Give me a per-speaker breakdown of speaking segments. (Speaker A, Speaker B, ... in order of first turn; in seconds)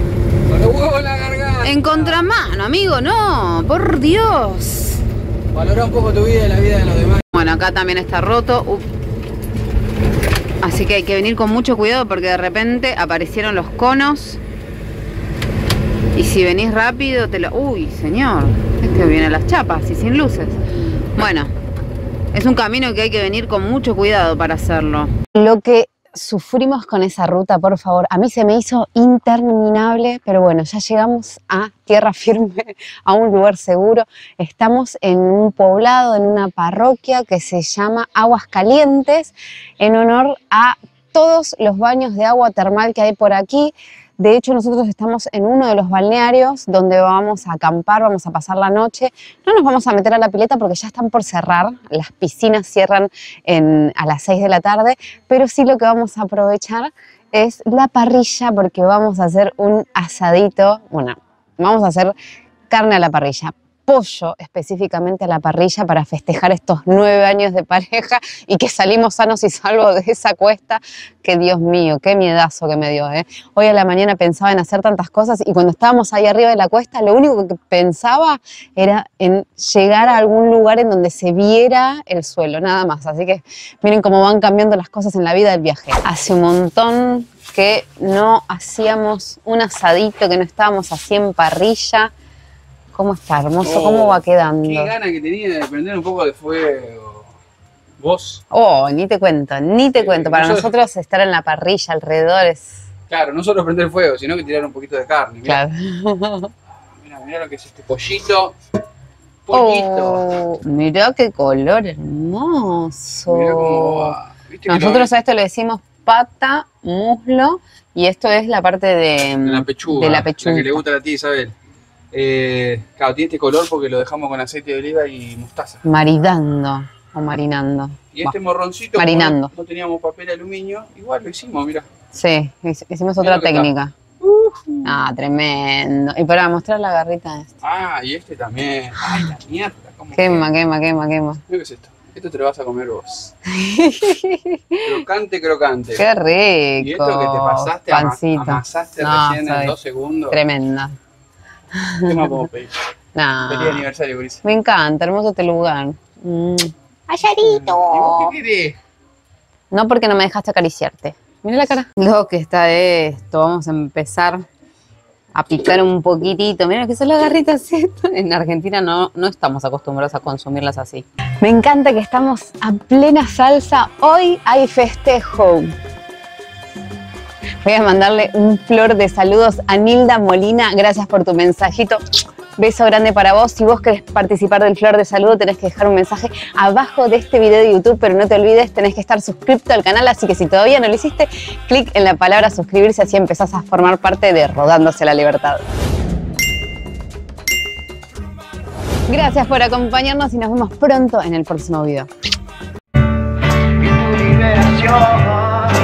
Speaker A: 0.5-2.2, 5.5-7.2, 93.6-97.3, 98.0-98.4, 99.9-100.7, 103.1-105.6, 107.0-108.6, 109.5-110.2, 113.3-115.1, 119.4-121.5, 122.1-125.8, 128.1-131.9, 133.2-134.9, 137.6-140.5, 141.5-143.3, 144.8-146.0, 146.8-150.4, 152.0-152.8, 153.5-154.4, 157.4-158.8
Speaker B: 1.6-5.0, 7.3-8.8, 10.6-14.4, 16.1-20.6, 21.2-21.5, 22.3-62.1, 62.7-92.1, 92.9-94.9, 98.5-102.8, 105.4-106.5, 109.5-120.8, 125.8-128.3, 128.9-129.5, 132.1-133.9, 134.8-137.5, 140.1-141.4, 143.5-144.9, 145.9-149.7, 150.3-150.9, 151.7-152.2, 153.1-153.8, 154.4-158.3, 159.7-164.4, 165.3-175.7, 177.6-182.0, 182.6-195.6, 199.1-202.1